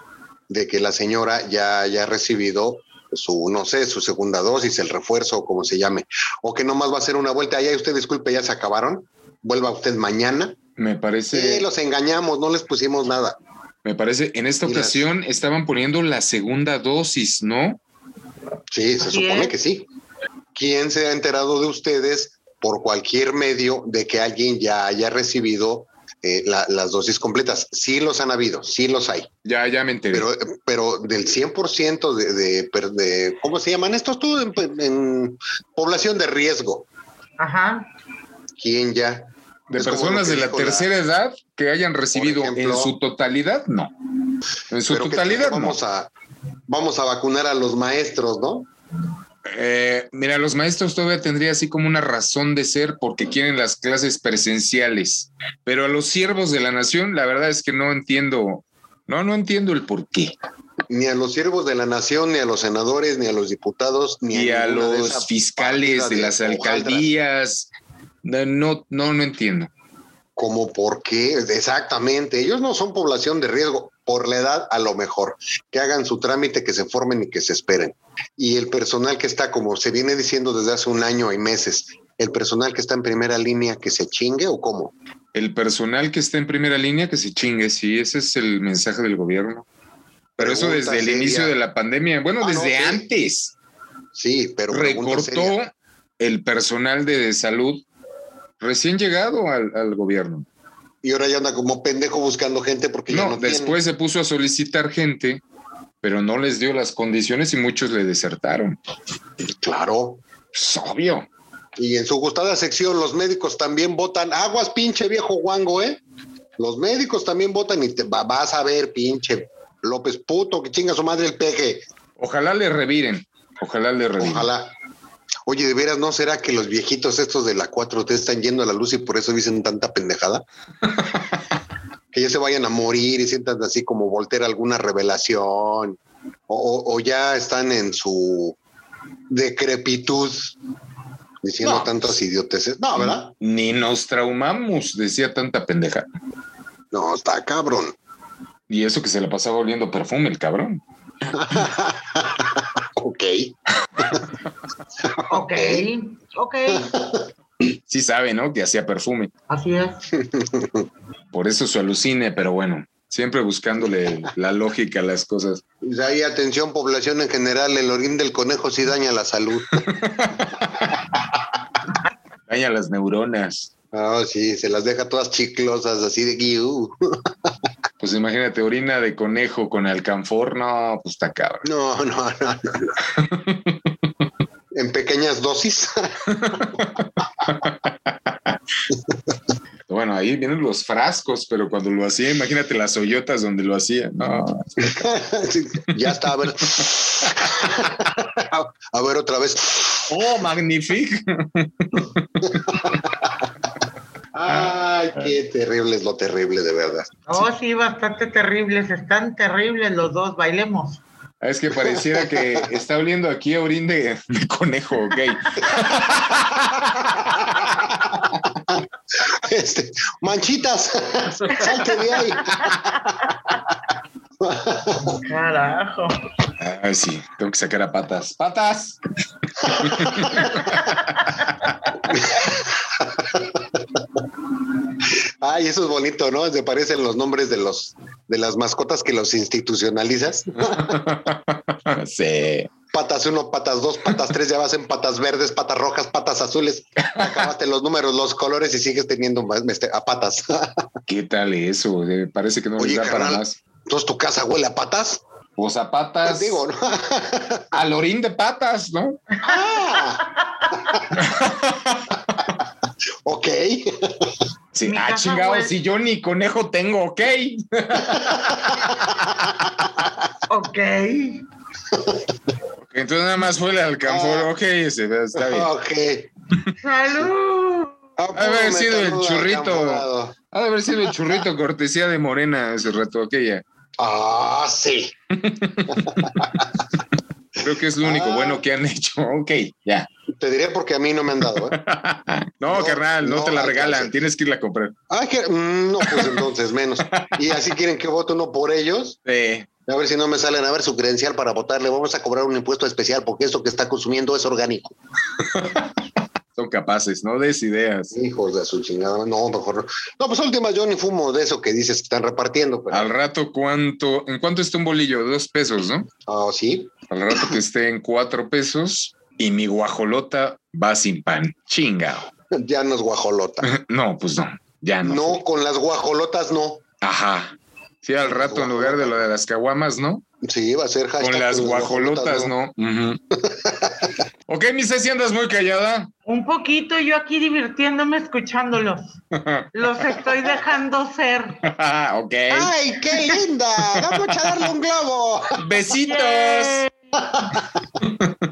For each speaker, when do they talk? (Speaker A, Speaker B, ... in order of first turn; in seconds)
Speaker A: 0.5-10.6, 11.3-13.3, 14.6-15.0, 18.7-19.9, 20.5-29.3, 30.1-36.9, 38.6-40.9, 42.1-42.9, 44.9-46.1, 46.7-48.7, 60.9-67.1, 70.4-84.9, 90.4-91.5, 92.4-93.0, 94.1-95.5, 101.0-103.8, 109.6-110.2, 111.8-116.0, 116.6-121.8, 124.2-124.7, 125.5-130.4, 132.1-136.0, 136.5-138.6, 139.3-140.6, 141.4-143.3, 146.9-147.9, 151.3-154.2, 155.0-155.9, 156.7-157.3, 160.1-160.8, 165.8-169.9, 173.9-177.2, 181.6-182.9, 184.7-186.9, 194.8-200.1, 202.7-203.3, 204.3-207.4, 211.7-212.6, 217.1-222.9, 224.4-225.2, 229.7-230.4, 232.1-233.6, 235.1-241.0, 242.9-250.8, 252.8-255.2, 256.2-257.7, 259.4-260.3, 263.2-264.3, 268.1-270.3, 271.9-272.2, 274.0-274.5, 275.4-276.3, 278.2-280.4, 281.1-281.4, 284.0-285.1, 285.9-286.8, 288.0-288.6, 290.4-291.8, 292.7-294.1, 295.1-299.2, 299.9-304.9, 308.1-313.1, 316.2-316.9, 322.5-323.7, 325.0-326.8, 328.2-329.2, 330.4-332.5, 333.4-334.1, 342.5-345.6, 347.2-347.7
Speaker B: 10.8-11.7, 13.8-17.8, 29.4-30.3, 39.7-43.9, 44.7-45.8, 49.5-60.3, 64.3-67.7, 68.2-69.7, 85.3-89.6, 90.4-93.5, 94.7-97.8, 98.6-100.5, 103.1-105.4, 106.0-108.8, 110.5-111.2, 122.2-124.5, 141.6-142.1, 142.9-146.1, 148.7-150.8, 157.9-159.3, 161.3-165.6, 169.8-170.5, 172.5-173.7, 178.0-181.7, 183.2-183.8, 186.3-187.9, 189.9-195.0, 200.1-202.7, 204.5-205.3, 211.4-217.9, 226.6-229.0, 229.6-230.6, 240.6-242.7, 247.1-247.5, 251.1-253.6, 255.6-256.6, 257.7-259.2, 261.1-262.1, 264.7-269.2, 272.8-275.7, 278.3-283.6, 285.4-286.5, 287.6-290.1, 291.4-294.9, 296.0-296.4, 297.1-297.3, 299.2-299.7, 305.5-305.9, 306.6-308.1, 312.9-316.1, 317.1-322.3, 323.6-325.4, 327.0-330.2, 331.2-333.2, 334.5-336.1, 339.3-340.0, 341.6-344.7, 345.6-346.8, 348.0-348.3
Speaker C: 19.0-19.5, 37.4-37.9, 155.3-156.9, 159.5-160.0, 207.3-211.0, 221.4-223.1, 225.2-226.1, 230.5-231.4, 260.2-261.0, 264.8-265.7, 270.5-271.4, 276.8-277.9, 336.3-339.2, 339.7-341.6, 346.1-346.9